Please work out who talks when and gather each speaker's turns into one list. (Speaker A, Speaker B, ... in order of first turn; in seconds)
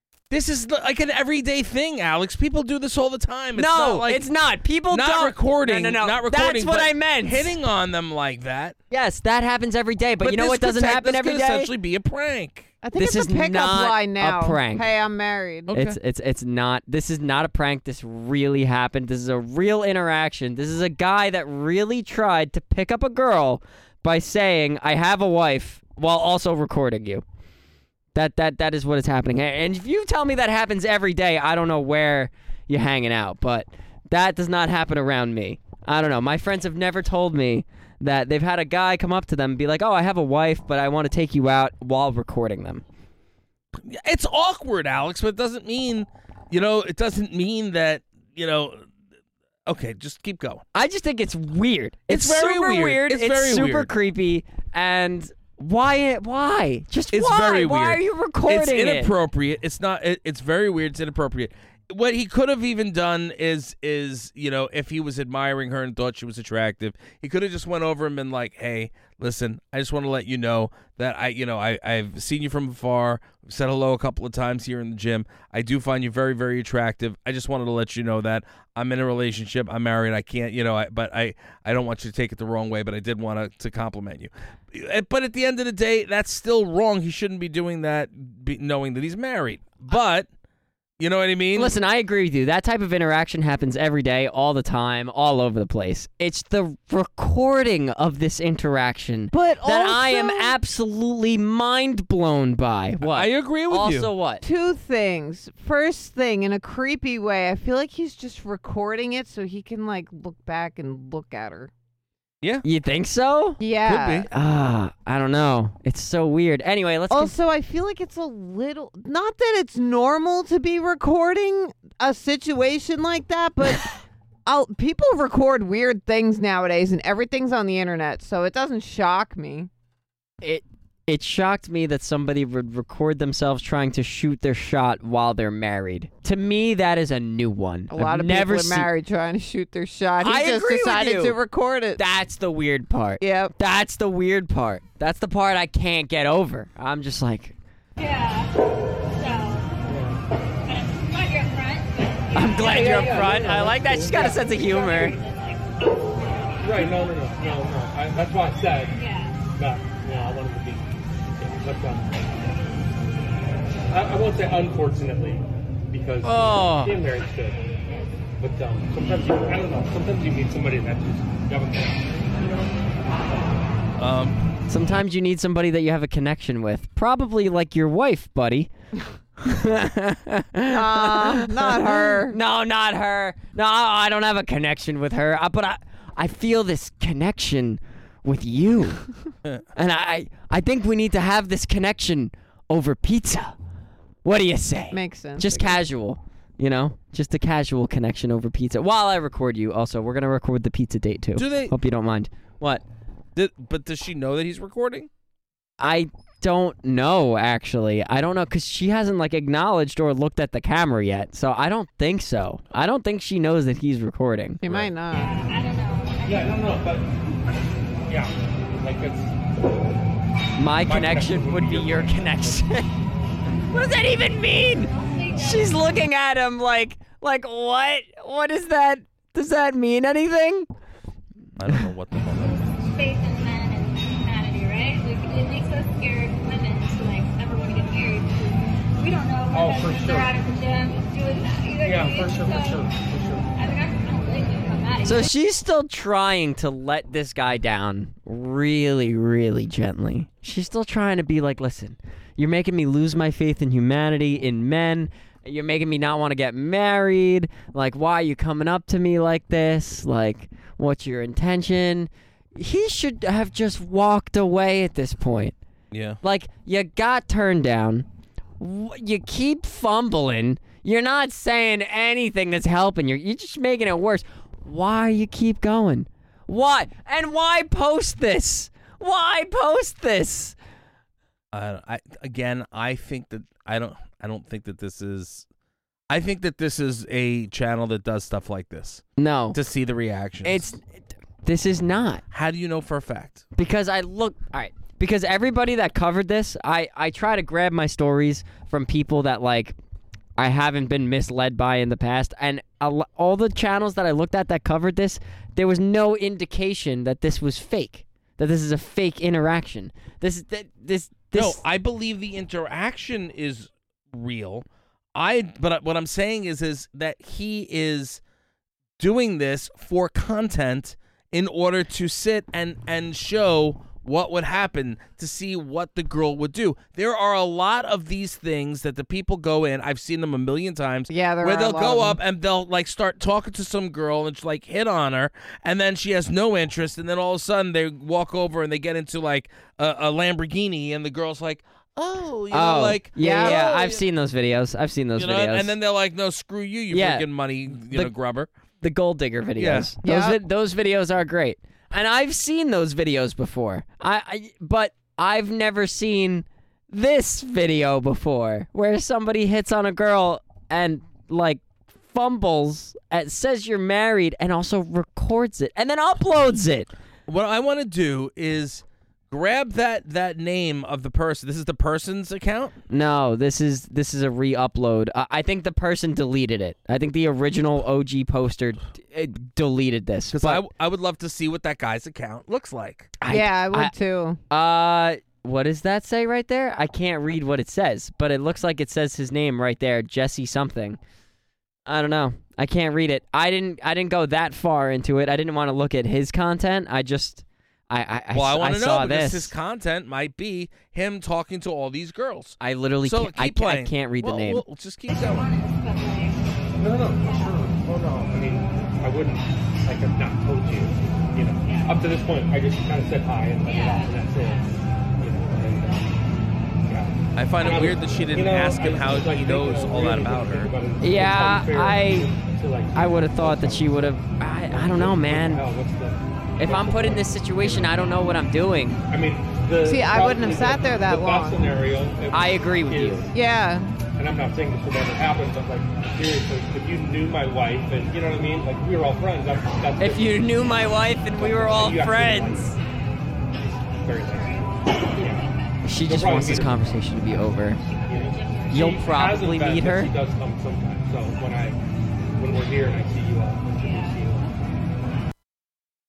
Speaker A: 0.3-4.2, 4.9-8.8, 10.2-12.7, 15.7-16.0, 43.9-48.8, 49.6-50.6, 52.1-53.9, 57.1-90.3, 91.0-91.8, 103.0-104.1, 113.8-114.3, 174.0-174.5, 201.3-201.7, 203.3-205.1, 231.6-232.9, 265.9-266.2, 281.5-285.4, 286.1-290.7, 292.3-293.4, 311.3-318.2, 319.0-344.1, 345.1-348.5, 349.6-349.9, 367.3-372.8, 380.3-383.1, 398.3-405.5, 417.3-420.7
Speaker B: 3.5-7.5, 8.9-11.7, 12.9-14.8, 15.7-27.2, 28.1-42.8, 50.7-59.1, 91.5-104.4, 112.6-113.6, 114.3-117.3, 130.4-138.9, 140.2-141.4, 141.9-147.5, 152.3-155.2, 166.2-167.0, 174.7-178.7, 179.4-189.0, 189.7-193.5, 194.2-202.8, 205.8-214.6, 220.6-222.9, 223.7-230.7, 245.0-265.5, 266.2-268.1, 268.6-280.6, 289.2-289.6, 290.4-292.2, 293.6-299.7, 300.4-311.6, 342.5-345.7, 346.9-347.3, 347.8-348.1, 348.8-366.9, 372.9-380.6, 383.2-383.9, 384.5-391.0, 391.9-399.5, 402.6-404.6, 421.0-422.3, 422.9-425.6, 426.6-429.0, 432.3-433.3, 440.0-442.8, 445.8-447.8, 448.7-450.1
Speaker C: 12.8-15.7, 99.3-100.5, 104.4-111.7, 113.6-114.3, 117.1-123.9, 124.5-129.7, 137.9-142.0, 143.2-143.5, 180.7-182.4, 194.9-195.8, 214.6-215.3, 331.1-332.2, 343.2-343.6, 350.0-350.4, 383.3-384.4, 429.8-431.7, 433.3-433.9
Speaker D: 148.0-148.5, 149.1-149.7, 150.6-157.6, 158.9-159.4, 215.1-216.8, 224.9-225.7, 232.9-242.9, 243.5-245.3, 405.1-406.5, 407.2-407.6, 411.6-411.9, 413.6-414.7, 444.2-445.8, 447.9-449.0, 453.8-454.5
Speaker E: 149.8-150.2, 152.6-154.4, 156.6-159.0, 159.5-162.3, 163.9-167.6, 168.4-172.4, 216.2-217.1, 218.1-219.5, 220.8-222.6, 239.5-240.3, 241.8-243.5, 406.8-416.1, 416.9-428.0, 429.1-433.4, 434.1-442.8, 443.6-445.4, 446.0-446.8, 448.1-451.8, 452.4-454.5